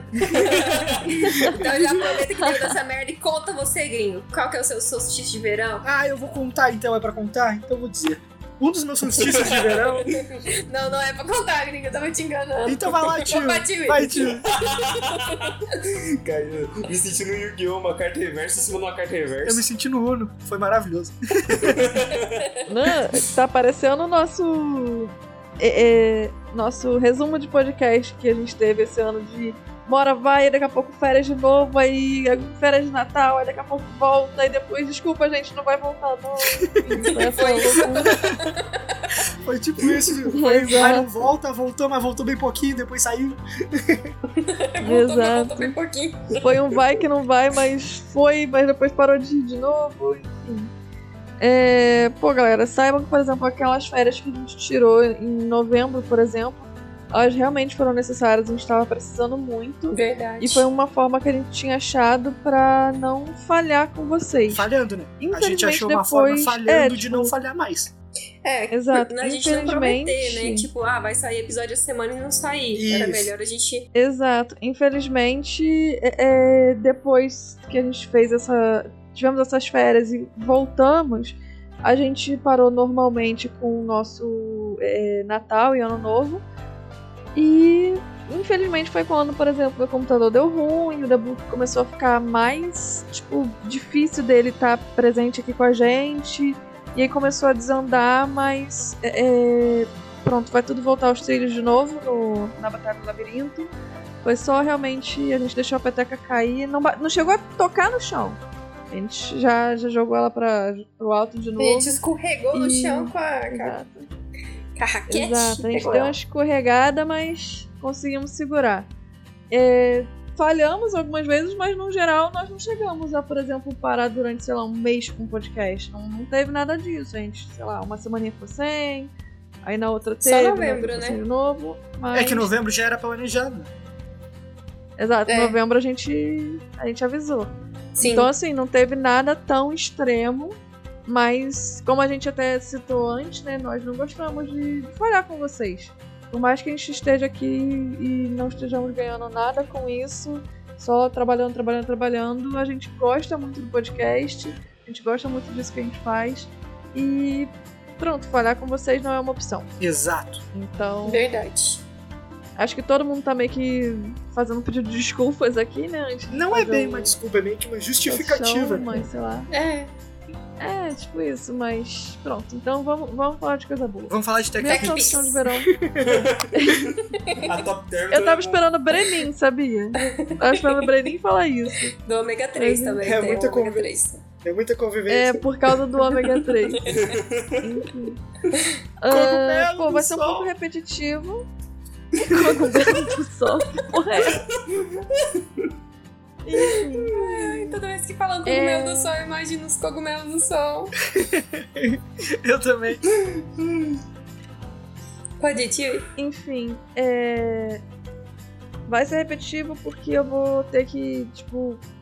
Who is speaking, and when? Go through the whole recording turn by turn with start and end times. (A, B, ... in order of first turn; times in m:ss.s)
0:00.3-0:05.8 A
0:00.4-0:01.0 B
0:05.8-0:10.2 C
0:09.2-0:10.0 B
0:10.1-0:15.5 A
0:12.6-0:14.5 C
0:14.5-0:19.6 B
0:19.4-0:21.9 C
0:21.5-0:22.4 B
0:22.7-0:38.3 D
0:37.1-0:38.6 A
0:39.4-0:44.1 C
0:40.3-0:41.1 D
0:44.3-0:46.4 A
0:44.8-0:45.7 D
0:46.4-0:50.7 D
0:51.4-1:04.7 D
0:59.9-1:00.6 A
1:04.5-1:07.9 C
1:05.2-1:07.3 D
1:08.4-1:13.9 A
1:08.7-1:10.7 D
1:12.7-1:13.3 C
1:13.9-1:26.4 D
1:27.3-1:48.4 D
1:48.9-1:52.0 D
1:51.6-1:53.8 A
1:52.5-1:54.1 D
1:54.8-1:56.2 A
1:55.1-1:58.9 D
1:59.5-2:09.1 D
2:09.6-2:12.5 D
2:10.2-2:11.2 A
2:12.1-2:13.7 C
2:15.0-2:39.7 D
2:15.3-2:15.6 A
2:18.0-2:18.3 A
2:39.8-2:40.4 C
2:40.5-2:41.2 D
2:41.0-2:41.8 A
2:42.6-2:47.1 D
2:46.3-2:49.0 C
2:48.0-2:49.5 D
2:49.5-2:49.9 A
2:50.6-2:55.7 D
2:54.0-2:56.4 C
2:54.6-2:55.4 A
2:56.0-2:58.6 B
2:56.5-2:56.9 D
2:58.1-3:01.9 D
3:00.0-3:00.9 A
3:02.0-3:04.2 A
3:02.5-3:03.4 D
3:03.0-3:03.9 C
3:04.4-3:05.4 C
3:05.1-3:06.8 D
3:06.7-3:07.0 A
3:06.9-3:07.6 B
3:07.6-3:08.2 D
3:09.0-3:11.5 D
3:09.1-3:10.5 C
3:12.2-3:14.4 D
3:14.3-3:15.7 B
3:16.4-3:17.8 D
3:17.0-3:20.9 A
3:18.4-3:19.1 D
3:21.1-3:23.0 C
3:25.4-3:26.1 A
3:26.2-3:27.8 D
3:28.9-3:31.8 D